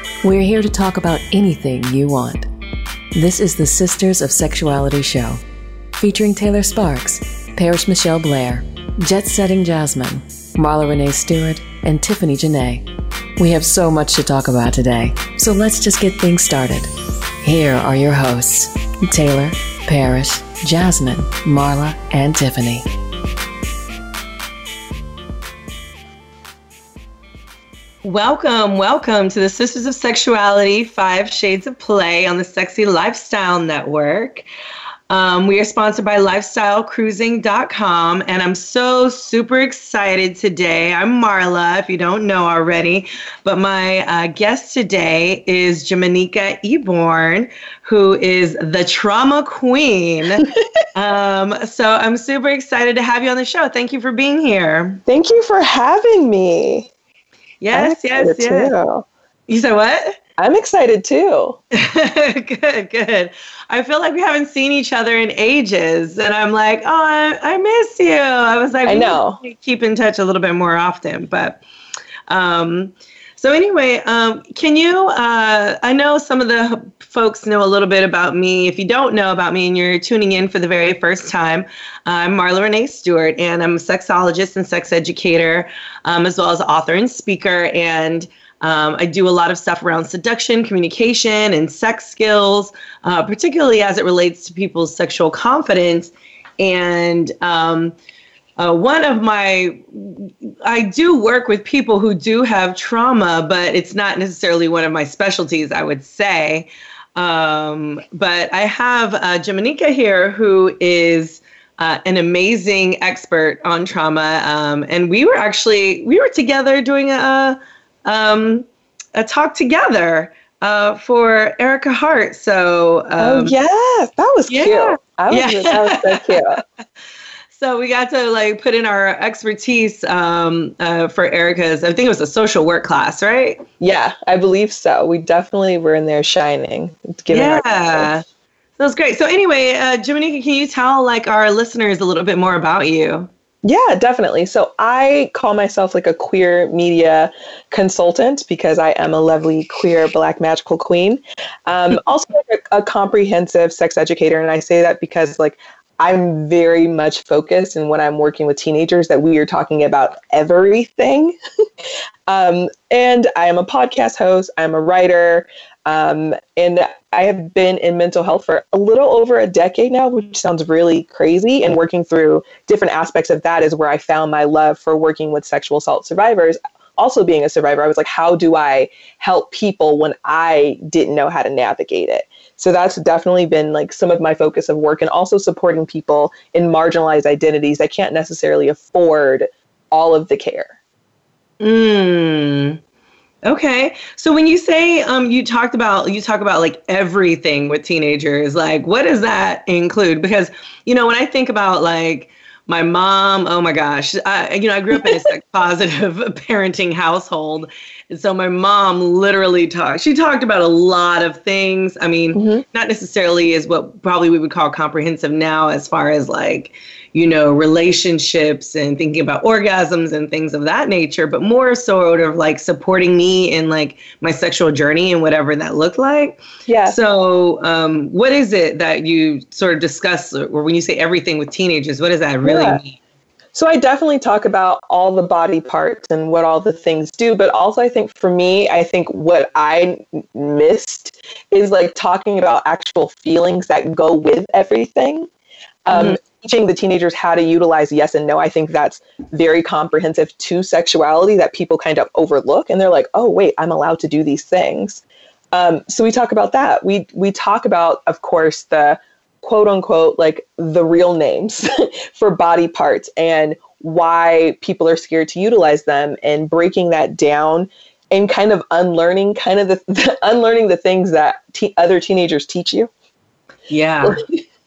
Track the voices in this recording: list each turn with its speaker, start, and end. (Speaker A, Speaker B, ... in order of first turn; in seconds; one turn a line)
Speaker A: 0.2-2.5
Speaker A: 3.1-5.4
Speaker A: 6.0-22.9
Speaker B: 28.0-34.5
Speaker B: 35.1-50.4
Speaker B: 50.9-55.0
Speaker C: 55.1-56.9
Speaker B: 57.6-58.7
Speaker C: 57.7-59.1
Speaker B: 59.5-60.2
Speaker C: 60.4-61.6
Speaker B: 61.7-71.6
Speaker C: 68.9-69.4
Speaker B: 72.3-97.9
Speaker B: 98.6-123.5
Speaker C: 123.2-126.6
Speaker B: 124.5-126.6
Speaker B: 127.5-133.6
Speaker C: 133.8-138.1
Speaker B: 137.3-138.2
Speaker B: 138.8-143.3
Speaker C: 143.6-161.4
Speaker C: 162.3-190.8
Speaker B: 191.6-192.8
Speaker B: 193.4-233.0
Speaker C: 212.3-212.6
Speaker C: 226.7-227.0
Speaker C: 232.4-232.8
Speaker C: 233.5-245.3
Speaker C: 245.8-272.9
Speaker B: 245.9-246.2
Speaker B: 273.7-274.2
Speaker C: 274.0-274.4